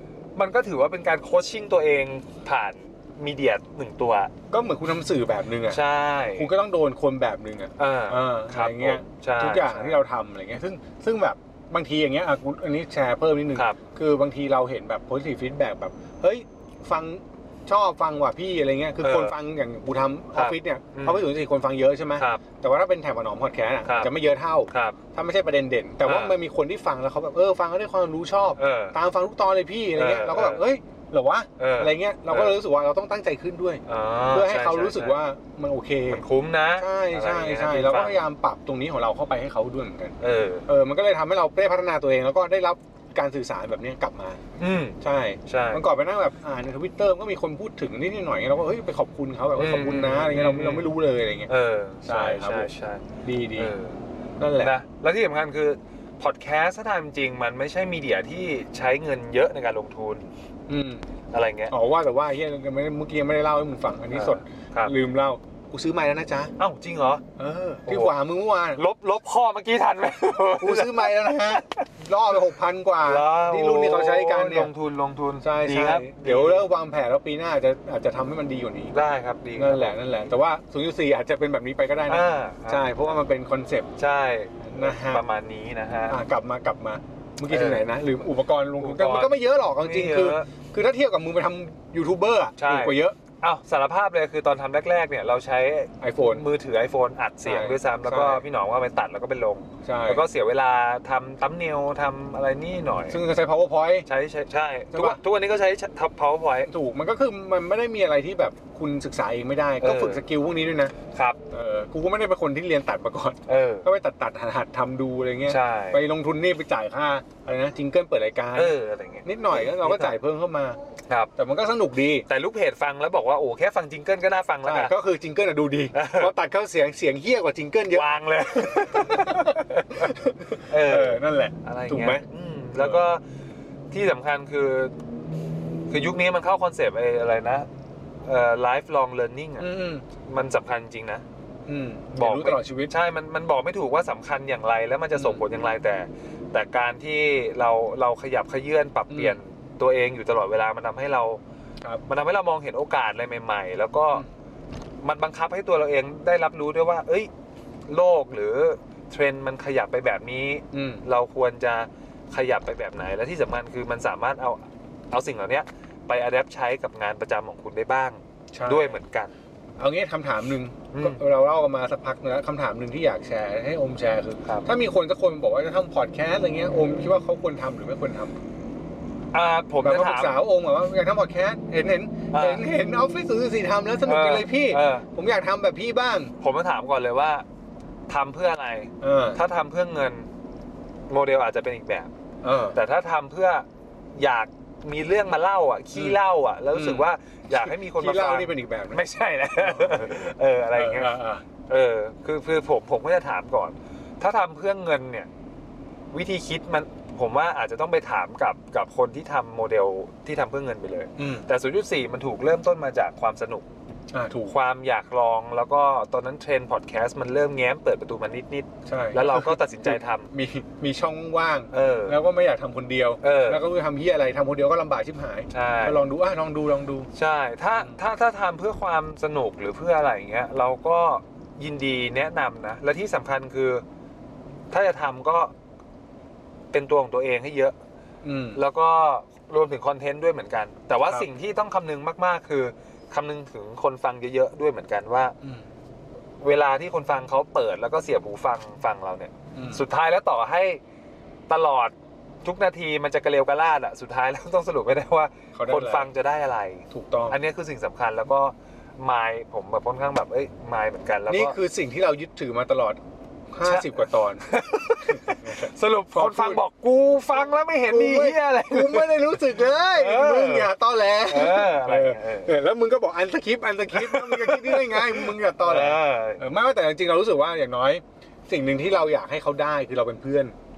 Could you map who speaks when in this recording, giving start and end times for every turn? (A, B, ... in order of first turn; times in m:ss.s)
0:00.4-0:04.3 A
0:04.5-0:05.8 B
0:05.7-0:06.5 A
0:06.3-0:36.2 B
0:07.8-0:10.0 A
0:19.0-0:19.3 A
0:20.3-0:21.3 A
0:22.2-0:22.4 A
0:23.8-0:24.1 A
0:24.7-0:25.0 A
0:26.0-0:26.4 A
0:28.6-0:29.0 A
0:30.0-0:30.6 A
0:31.6-0:32.6 A
0:33.8-0:35.2 A
0:36.1-0:38.2 A
0:36.8-0:40.1 B
0:40.2-0:40.6 A
0:40.7-0:44.4 B
0:44.6-0:45.8 A
0:45.0-0:51.5 B
0:49.6-0:50.9 A
0:51.5-0:54.0 A
0:52.0-0:52.7 B
0:53.2-0:53.7 B
0:54.4-0:54.7 B
0:54.6-1:00.3 A
1:00.7-1:01.0 B
1:01.3-1:01.7 A
1:01.7-1:06.5 B
1:04.1-1:04.9 A
1:06.6-1:07.2 A
1:07.4-1:08.8 B
1:07.8-1:08.1 A
1:08.8-1:11.8 A
1:10.6-1:14.7 B
1:13.0-1:16.6 A
1:15.4-1:18.9 B
1:18.9-1:20.0 A
1:19.6-1:23.9 B
1:22.1-1:23.1 A
1:24.0-1:26.2 A
1:24.6-1:25.2 B
1:26.1-1:33.2 B
1:27.5-1:27.9 A
1:28.8-1:30.5 A
1:32.6-1:43.2 A
1:36.0-1:36.4 B
1:37.4-1:38.4 B
1:39.8-1:40.2 B
1:43.1-1:44.1 B
1:44.0-1:46.7 A
1:44.9-1:45.2 B
1:46.7-1:50.9 B
1:49.8-1:50.2 A
1:51.1-1:51.4 A
1:51.5-2:00.8 B
1:53.5-1:53.8 A
1:55.4-1:56.0 A
1:58.6-2:00.2 A
2:01.4-2:02.2 B
2:02.3-2:04.9 A
2:04.6-2:08.1 B
2:05.9-2:06.3 A
2:07.9-2:13.2 A
2:08.6-2:13.0 B
2:13.9-2:14.9 A
2:15.9-2:17.7 A
2:18.2-2:19.7 A
2:19.6-2:20.0 B
2:20.3-2:21.2 A
2:21.6-2:22.9 B
2:22.1-2:31.4 A
2:25.1-2:25.4 B
2:29.1-2:29.4 B
2:32.0-2:34.2 A
2:35.0-2:37.3 A
2:37.9-2:49.3 A
2:40.7-2:41.0 B
2:48.5-2:49.0 B
2:49.8-2:58.4 B
2:50.9-2:51.2 A
2:59.3-3:00.4 A
2:59.8-3:06.3 B
3:02.3-3:02.6 A
3:04.0-3:05.0 A
3:06.4-3:07.4 A
3:08.1-3:10.3 A
3:09.0-3:09.4 B
3:11.1-3:12.1 A
3:12.4-3:12.8 B
3:12.7-3:21.2 A
3:16.7-3:19.0 B
3:19.6-3:21.4 B
3:21.7-3:25.3 A
3:26.1-3:33.6 A
3:31.2-3:31.4 B
3:34.1-3:34.5 B
3:34.5-3:40.3 A
3:38.8-3:47.1 B
3:41.7-3:42.2 A
3:43.2-3:43.6 A
3:45.5-3:46.0 A
3:47.1-3:53.8 A
3:54.7-3:55.5 A
3:56.7-3:57.7 A
3:58.2-3:58.6 B
3:58.5-4:05.4 A
4:06.4-4:10.8 A
4:09.5-4:09.8 B
4:11.5-4:21.6 A
4:15.5-4:16.1 B
4:16.9-4:17.4 B
4:21.3-4:24.4 B
4:23.6-4:30.7 A
4:25.1-4:26.6 B
4:27.9-4:40.5 B
4:31.3-4:32.6 A
4:33.9-4:36.4 A